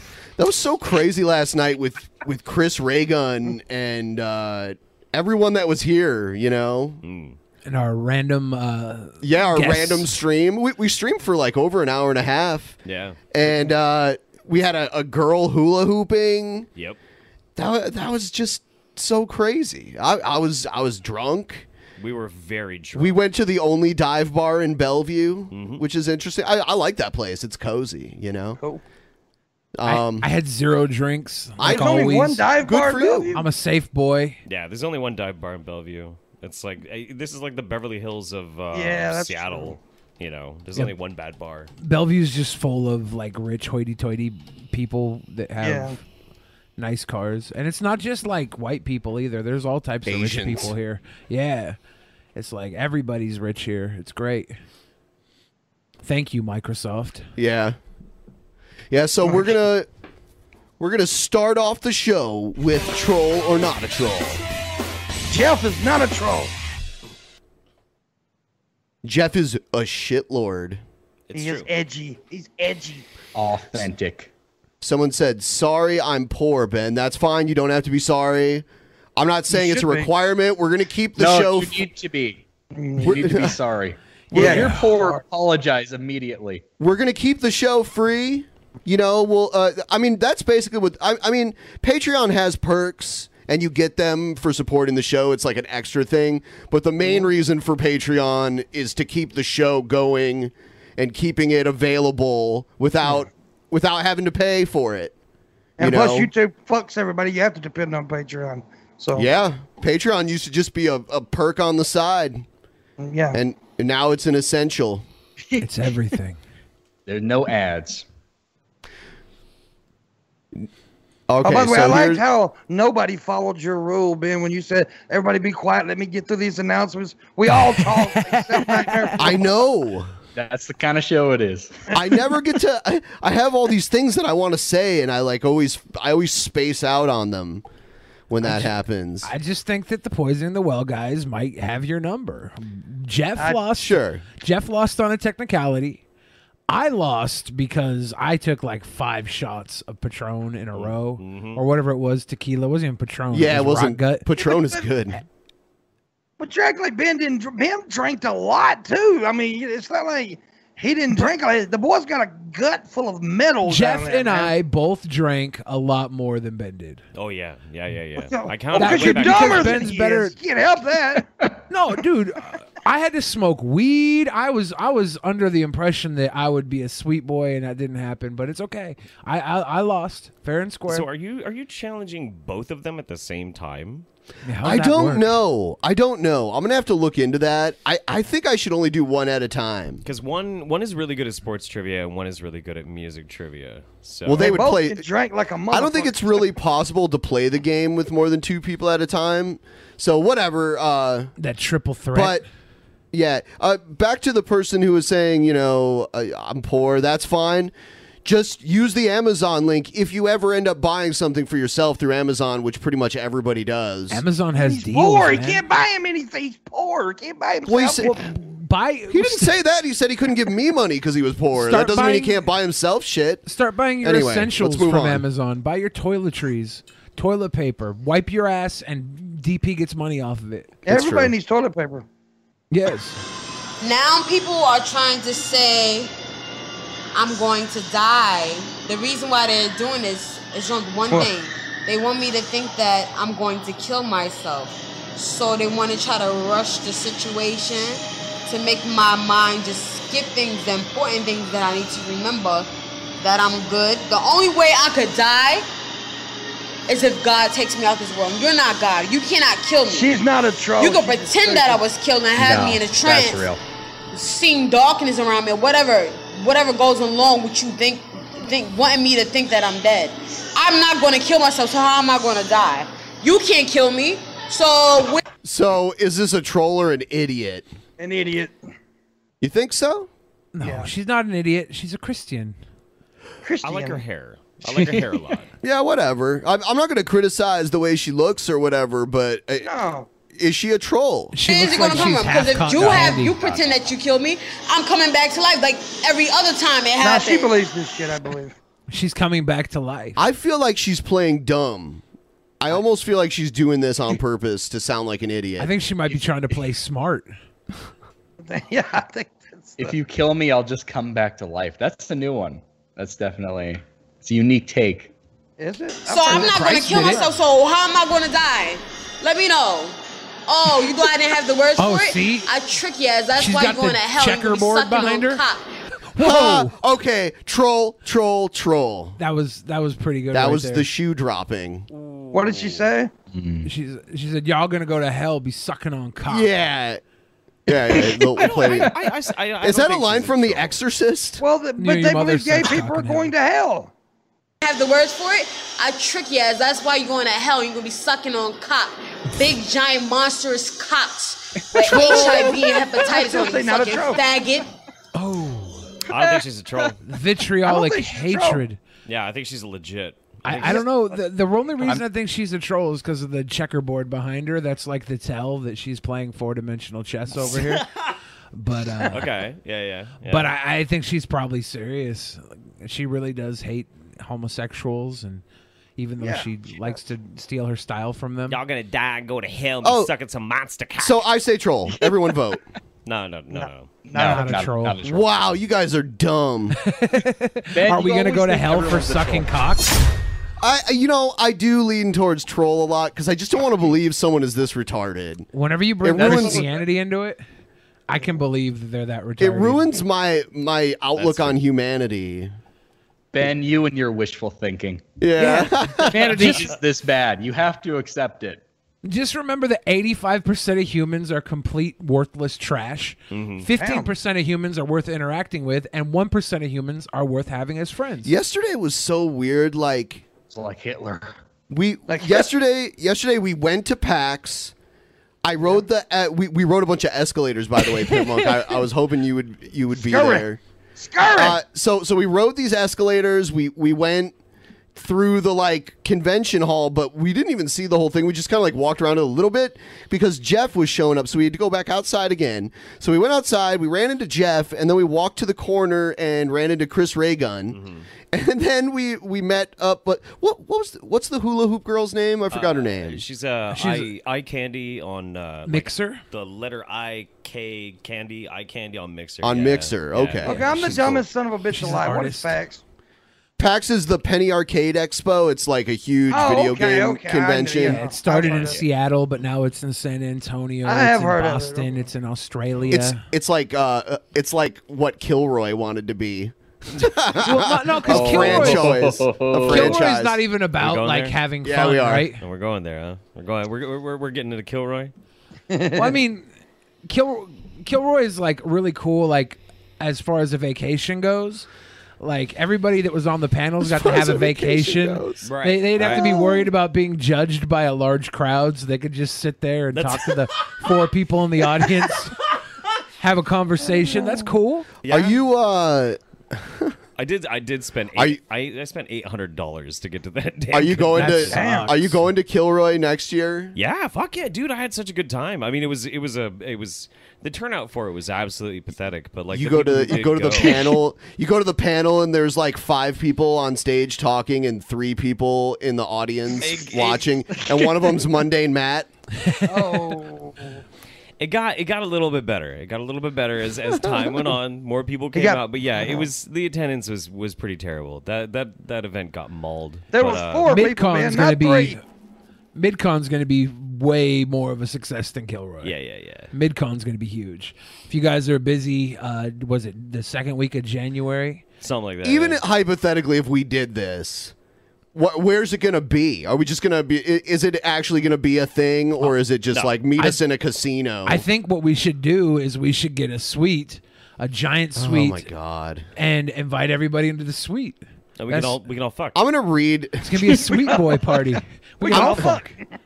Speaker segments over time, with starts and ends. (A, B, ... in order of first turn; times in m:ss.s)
0:00.4-0:07.0 A
0:07.0-0:07.4 B
0:07.6-0:10.1 C
0:09.2-0:12.8 A
0:12.8-0:13.2 B
0:13.3-0:16.7 A
0:17.6-0:21.6 A
0:22.0-0:23.2 B
0:22.9-0:28.6 A
0:25.5-0:25.8 B
0:29.8-0:30.3 A
0:29.9-0:32.5 C
0:31.6-0:32.0 A
0:31.6-0:33.4 D
0:32.6-0:33.4 A
0:33.3-0:34.4 C
0:34.4-0:41.7 B
0:38.7-0:39.8 D
0:41.8-0:46.0 C
0:45.6-0:46.0 D
0:46.8-0:51.8 C
0:50.1-0:50.7 A
0:52.4-0:54.6 C
0:56.0-0:57.3 C
0:57.4-0:57.8 A
0:58.9-0:59.9 A
1:00.8-1:04.4 A
1:05.3-1:06.5 D
1:09.0-1:10.8 A
1:11.3-1:11.7 B
1:11.3-1:13.1 D
1:13.4-1:14.3 E
1:14.8-1:18.6 A
1:19.2-1:21.8 A
1:19.5-1:20.1 D
1:21.2-1:22.4 E
1:22.8-1:23.2 D
1:23.0-1:26.6 E
1:23.0-1:23.6 A
1:24.3-1:24.6 A
1:24.3-1:25.2 D
1:24.5-1:24.9 C
1:26.8-1:45.1 A
1:45.8-1:46.3 A
1:45.8-1:49.3 D
1:49.1-1:52.4 A
1:53.0-1:53.4 D
1:53.3-1:55.0 A
1:55.6-1:56.4 C
1:57.1-1:58.0 E
2:01.3-2:02.2 A
2:01.4-2:09.3 D
2:07.8-2:09.3 C
2:09.2-2:10.1 A
2:10.4-2:11.7 E
2:11.9-2:17.6 A
2:18.3-2:19.3 A
2:18.4-2:26.0 C
2:23.8-2:24.2 A
2:26.7-2:34.2 C
2:30.8-2:31.6 B
2:33.3-2:35.2 A
2:34.4-2:34.8 D
2:36.4-2:44.5 D
2:43.6-2:47.0 C
2:47.1-2:49.8 B
2:48.2-2:51.2 D
2:48.7-2:50.4 C
2:51.7-3:01.0 C
3:00.9-3:04.0 B
3:04.4-3:05.3 C
3:04.6-3:10.0 A
3:10.0-3:14.6 B
3:14.2-3:15.0 A
3:14.4-3:16.4 D
3:15.7-3:21.3 A
3:21.4-3:22.4 C
3:22.1-3:22.4 A
3:23.1-3:27.7 A
3:28.2-3:34.2 A
3:34.1-3:35.6 C
3:34.6-3:38.2 D
3:37.6-3:38.1 A
3:38.0-3:39.5 C
3:39.1-3:43.4 A
3:41.5-3:42.4 C
3:43.5-3:50.8 C
3:44.0-3:45.2 A
3:50.9-3:52.0 D
3:50.9-3:51.3 A
3:52.7-3:53.2 C
3:53.8-3:56.1 F
3:57.1-4:15.6 F
4:16.9-4:20.2 F
4:19.9-4:21.8 D
4:20.8-4:23.5 F
4:22.4-4:23.6 E
4:24.1-4:35.2 F
4:35.4-4:37.7 A
4:38.0-4:38.6 D
4:39.4-4:40.1 A
4:40.5-4:42.6 C
4:40.6-4:40.9 D
4:43.4-4:44.0 D
4:43.6-4:45.5 B
4:45.6-4:49.7 A
4:49.6-4:50.1 D
4:50.3-4:51.4 A
4:51.3-4:53.4 C
4:51.5-4:57.5 F
4:52.8-4:53.7 E
4:57.0-4:58.5 D
4:58.9-5:00.2 C
5:00.2-5:02.0 A
5:02.6-5:05.7 A
5:05.6-5:07.3 C
5:08.4-5:09.9 D
5:09.8-5:15.1 E
5:15.6-5:17.4 D
5:16.1-5:25.6 F
5:16.3-5:17.2 C
5:21.8-5:22.5 C
5:23.4-5:25.4 C
5:26.1-5:26.7 C
5:26.2-5:29.2 A
5:29.2-5:30.9 C
5:30.3-5:31.9 A
5:31.9-5:32.9 B
5:32.3-5:33.1 D
5:33.3-5:33.7 E
5:33.6-5:36.5 C
5:36.3-5:37.0 A
5:37.7-5:38.9 A
5:38.4-5:40.8 B
5:39.6-5:41.4 A
5:41.4-5:43.9 D
5:41.8-5:43.3 C
5:44.6-5:54.7 F
5:51.9-5:54.2 D
5:51.9-5:52.2 C
5:55.1-5:55.9 C
5:56.1-5:57.0 B
5:57.0-5:58.8 C
5:57.6-5:58.6 D
5:59.0-6:00.8 B
6:00.4-6:07.8 C
6:00.7-6:01.2 D
6:08.5-6:09.2 C
6:09.1-6:10.5 B
6:10.2-6:15.4 C
6:16.0-6:18.6 C
6:16.2-6:17.0 D
6:18.5-6:21.2 B
6:19.8-6:20.1 A
6:21.0-6:22.6 A
6:23.0-6:23.9 B
6:23.5-6:24.5 D
6:24.1-6:25.4 E
6:24.1-6:25.0 C
6:25.0-6:26.8 A
6:26.8-6:30.0 C
6:27.7-6:29.5 E
6:30.6-6:35.5 A
6:35.5-6:37.4 C
6:36.0-6:36.6 A
6:36.2-6:36.7 E
6:38.1-6:39.9 C
6:39.4-6:42.5 A
6:41.2-6:41.5 B
6:43.3-6:45.0 E
6:45.2-6:46.5 A
6:45.4-6:46.7 C
6:46.1-6:48.6 E
6:49.0-6:58.3 C
6:53.3-6:53.7 B
6:53.8-6:54.1 D
6:58.2-7:00.2 A
7:00.5-7:01.4 E
7:01.7-7:04.7 A
7:02.1-7:02.5 D
7:05.4-7:10.6 A
7:10.0-7:10.5 D
7:11.0-7:11.6 D
7:11.2-7:14.4 A
7:15.0-7:27.8 A
7:27.7-7:28.1 B
7:28.3-7:33.2 A
7:32.5-7:41.2 B
7:33.7-7:34.1 C
7:35.7-7:36.2 C
7:39.4-7:41.0 A
7:40.4-7:42.8 D
7:41.7-7:42.5 C
7:43.6-7:48.0 A
7:46.3-7:48.8 D
7:47.8-7:53.2 C
7:50.8-7:52.0 D
7:52.9-8:00.4 A
7:57.4-7:59.0 C
7:58.1-8:00.0 E
7:59.6-8:02.4 C
8:00.8-8:01.4 B
8:01.6-8:02.3 A
8:02.4-8:05.1 B
8:05.7-8:06.1 D
8:06.0-8:06.5 C
8:07.1-8:11.7 C
8:12.2-8:22.4 C
8:13.8-8:15.5 A
8:15.4-8:16.3 B
8:23.2-8:24.9 C
8:25.0-8:25.4 B
8:25.1-8:26.9 A
8:27.2-8:31.5 B
8:30.7-8:33.8 A
8:31.1-8:32.2 C
8:31.5-8:31.9 D
8:33.8-8:41.0 B
8:39.5-8:49.1 A
8:46.6-8:47.3 B
8:49.4-8:49.9 C
8:49.7-8:50.8 D
8:51.4-9:00.7 B
8:55.3-8:55.6 D
9:00.1-9:02.0 D
9:00.7-9:02.0 C
9:02.8-9:05.9 C
9:05.8-9:06.5 B
9:06.5-9:11.6 C
9:11.8-9:12.6 B
9:12.2-9:14.5 A
9:15.1-9:21.4 A
9:21.2-9:25.5 C
9:25.0-9:26.1 A
9:26.2-9:28.8 C
9:28.4-9:29.4 B
9:29.4-9:30.2 A
9:30.2-9:32.7 C
9:30.8-9:31.2 D
9:32.0-9:32.8 D
9:32.1-9:32.5 A